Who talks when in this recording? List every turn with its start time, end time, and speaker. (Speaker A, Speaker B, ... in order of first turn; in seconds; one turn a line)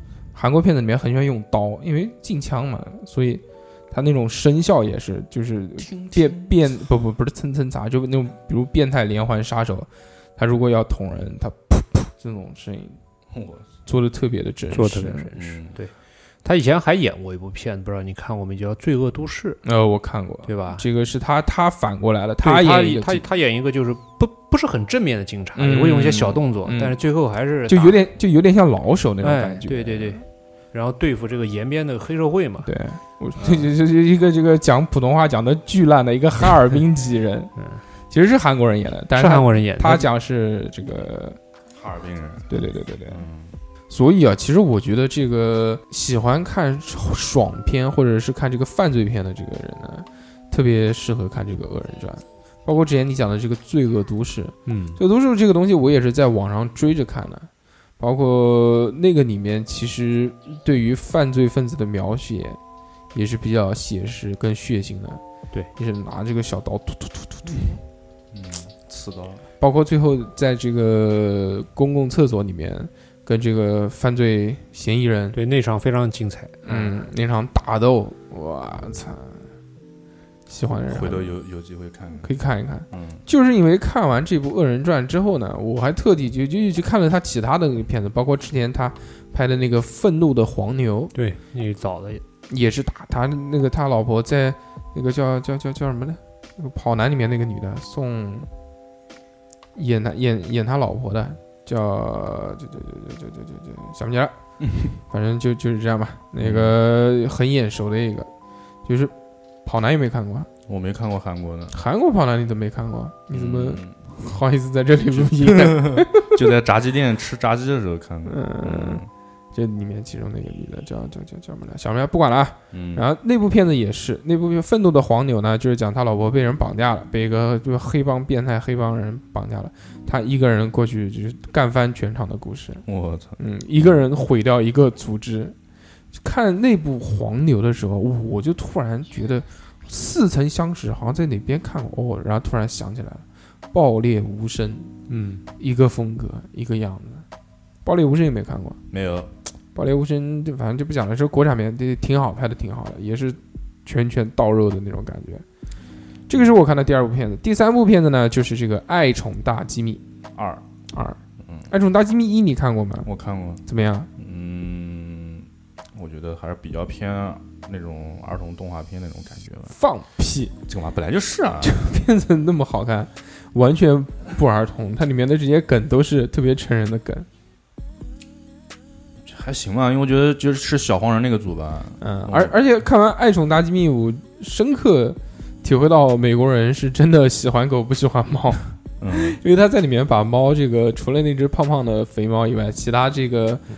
Speaker A: 0.3-13.0
Speaker B: 5.8-6.5
Speaker B: 13.3-13.7
Speaker A: 13.9-15.3
Speaker C: 14.7-15.9
Speaker B: 15.3-15.8
Speaker C: 16.4-19.6
Speaker A: 19.6-23.2
Speaker C: 20.5-20.8
Speaker C: 22.4-28.0
Speaker A: 25.6-26.9
Speaker A: 27.7-30.2
Speaker C: 29.2-32.7
Speaker A: 32.6-37.5
Speaker C: 33.4-33.7
Speaker A: 38.1-41.4
Speaker C: 39.2-40.1
Speaker B: 41.7-42.5
Speaker A: 42.5-43.2
Speaker B: 43.1-43.6
Speaker A: 43.9-62.6
Speaker C: 54.7-55.0
Speaker A: 63.1-65.2
Speaker A: 65.8-67.8
Speaker B: 68.3-69.4
Speaker A: 69.6-75.4
Speaker C: 75.3-77.0
Speaker A: 76.7-79.5
Speaker A: 80.5-81.3
Speaker B: 80.9-82.3
Speaker A: 82.2-91.1
Speaker B: 82.9-83.2
Speaker C: 91.2-92.2
Speaker A: 92.5-98.5
Speaker A: 99.8-104.3
Speaker A: 105.0-108.3
Speaker B: 106.4-106.8
Speaker A: 108.8-109.1
Speaker A: 109.7-110.5
Speaker B: 110.7-111.8
Speaker A: 111.7-116.4
Speaker B: 113.3-114.1
Speaker B: 115.1-119.1
Speaker A: 118.3-119.0
Speaker A: 119.5-132.8
Speaker B: 122.7-123.0
Speaker B: 132.9-133.4
Speaker A: 133.4-135.6
Speaker A: 136.1-144.9
Speaker C: 145.1-145.4
Speaker A: 145.6-147.2
Speaker A: 147.8-148.8
Speaker B: 148.9-149.3
Speaker A: 149.8-155.4
Speaker A: 156.3-160.0
Speaker B: 160.3-160.6
Speaker A: 160.9-161.2
Speaker B: 161.4-161.7
Speaker A: 161.7-163.1
Speaker B: 163.1-163.6
Speaker A: 163.7-164.1
Speaker B: 164.2-169.8
Speaker A: 169.7-170.5
Speaker B: 170.7-171.9
Speaker A: 171.6-177.3
Speaker B: 179.2-182.6
Speaker A: 182.0-193.6
Speaker B: 189.0-189.4